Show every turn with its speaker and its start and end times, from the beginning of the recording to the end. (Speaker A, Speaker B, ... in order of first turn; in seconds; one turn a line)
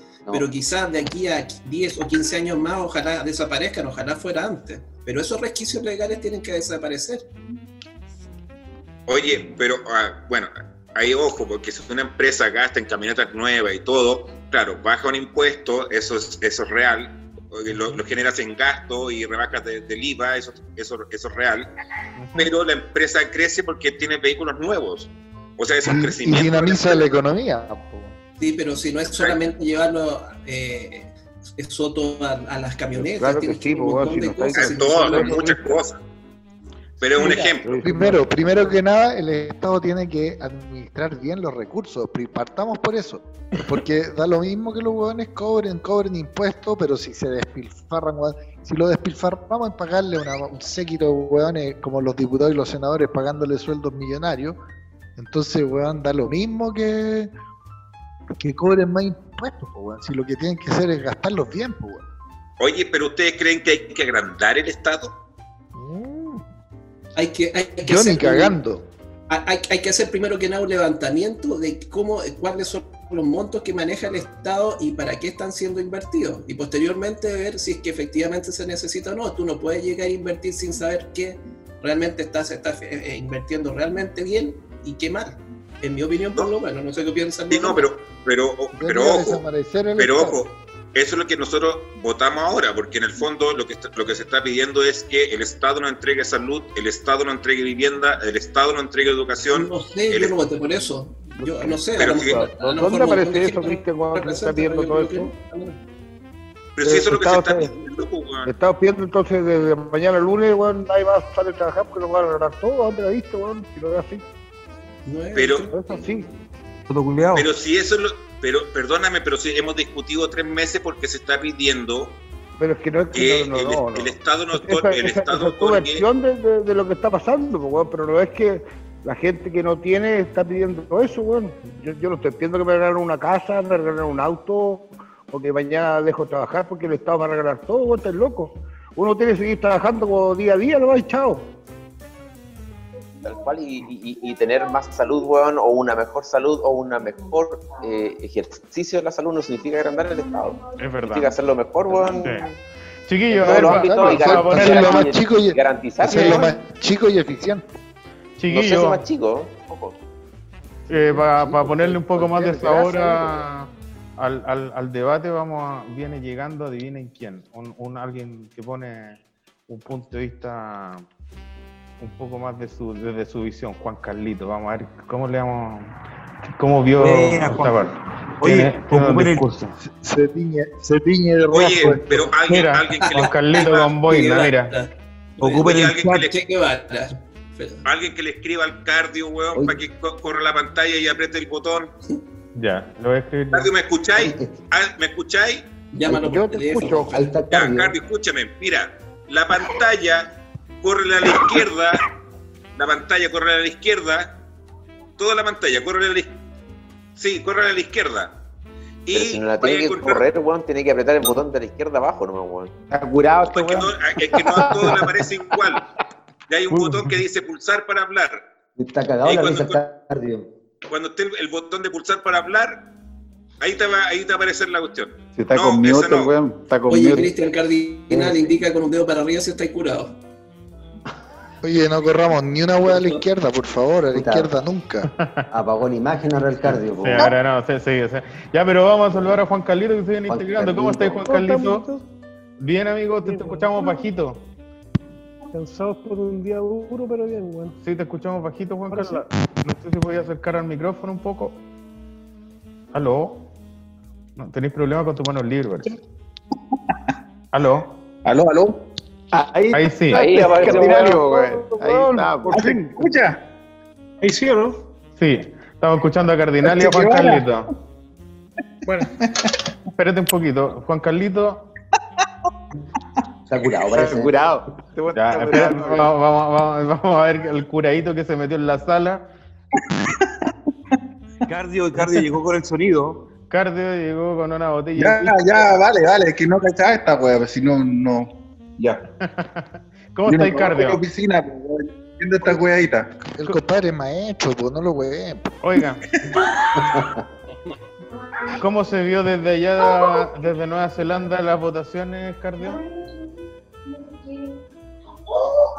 Speaker A: 0.3-7.2
Speaker B: 9.1-21.7
Speaker C: 22.2-22.5
Speaker B: 22.4-27.1
Speaker D: 25.8-28.1
Speaker A: 28.4-35.7
Speaker B: 29.1-29.4
Speaker E: 33.0-35.5
Speaker B: 34.5-36.0
Speaker B: 37.0-37.8
Speaker E: 37.2-38.6
Speaker D: 37.2-54.6
Speaker D: 55.1-57.3
Speaker D: 58.4-62.0
Speaker B: 62.6-65.1
Speaker D: 65.7-66.4
Speaker A: 67.2-68.5
Speaker D: 67.8-68.9
Speaker A: 69.3-87.9
Speaker B: 87.5-89.4
Speaker D: 88.7-90.4
Speaker B: 90.0-100.3
Speaker A: 99.5-105.8
Speaker E: 101.4-105.3
Speaker B: 102.0-102.4
Speaker B: 106.8-108.5
Speaker E: 106.8-107.8
Speaker E: 108.4-114.2
Speaker A: 115.0-116.1
Speaker B: 115.3-115.7
Speaker E: 115.7-116.3
Speaker F: 116.9-117.5
Speaker B: 117.3-122.1
Speaker E: 122.6-141.5
Speaker B: 123.1-126.0
Speaker G: 143.2-152.4
Speaker C: 150.8-151.3
Speaker C: 152.1-152.5
Speaker C: 153.1-155.1
Speaker G: 153.3-156.5
Speaker D: 153.4-157.6
Speaker C: 156.1-156.4
Speaker C: 158.4-159.0
Speaker G: 158.5-159.9
Speaker C: 160.9-171.0
Speaker D: 160.9-163.4
Speaker C: 172.0-175.9
Speaker C: 176.6-179.7
Speaker F: 177.0-177.9
Speaker F: 178.4-179.5
Speaker D: 179.8-182.3
Speaker B: 181.5-184.0
Speaker C: 182.4-184.7
Speaker A: 183.0-184.9
Speaker F: 185.4-186.3
Speaker A: 185.4-187.8
Speaker B: 185.6-186.3
Speaker B: 187.8-191.9
Speaker H: 189.5-189.8
Speaker C: 192.5-193.7
Speaker B: 193.5-195.7
Speaker H: 194.2-194.7
Speaker A: 195.9-197.3
Speaker E: 196.1-197.1
Speaker H: 197.1-198.0
Speaker B: 197.5-202.0
Speaker B: 202.8-204.3
Speaker B: 205.2-206.4
Speaker B: 207.2-208.3
Speaker B: 209.1-210.2
Speaker G: 209.1-212.7
Speaker I: 212.9-215.0
Speaker B: 213.5-215.8
Speaker B: 216.5-218.4
Speaker H: 218.8-220.5
Speaker B: 219.2-219.8
Speaker B: 220.9-222.8
Speaker B: 223.6-226.3
Speaker I: 225.3-227.3
Speaker A: 226.9-230.1
Speaker H: 228.1-228.6
Speaker D: 231.6-235.1
Speaker A: 232.8-233.2
Speaker H: 234.1-234.5
Speaker C: 235.1-235.4
Speaker H: 235.5-237.3
Speaker C: 237.0-241.8
Speaker H: 240.3-241.3
Speaker J: 241.2-242.0
Speaker C: 242.6-244.4
Speaker J: 243.2-243.9
Speaker J: 245.5-247.8
Speaker C: 247.8-251.6
Speaker J: 248.9-249.2
Speaker C: 252.9-253.4
Speaker C: 254.4-255.9
Speaker C: 257.5-257.9
Speaker K: 258.2-258.8
Speaker I: 259.3-262.6
Speaker C: 259.7-260.7
Speaker G: 260.1-261.1
Speaker E: 260.6-263.2
Speaker K: 262.5-263.4
Speaker J: 264.2-264.8
Speaker C: 265.2-267.7
Speaker K: 266.6-267.4
Speaker J: 268.9-269.1
Speaker K: 269.2-269.5
Speaker C: 270.0-271.6
Speaker H: 273.5-274.4
Speaker I: 273.6-276.1
Speaker C: 275.1-279.3
Speaker K: 279.8-280.5
Speaker F: 281.5-283.2
Speaker C: 283.5-285.5
Speaker K: 284.9-289.0
Speaker C: 289.2-291.0
Speaker K: 290.3-293.1
Speaker D: 293.2-295.6
Speaker C: 295.6-296.0
Speaker H: 296.8-297.1
Speaker C: 298.5-302.8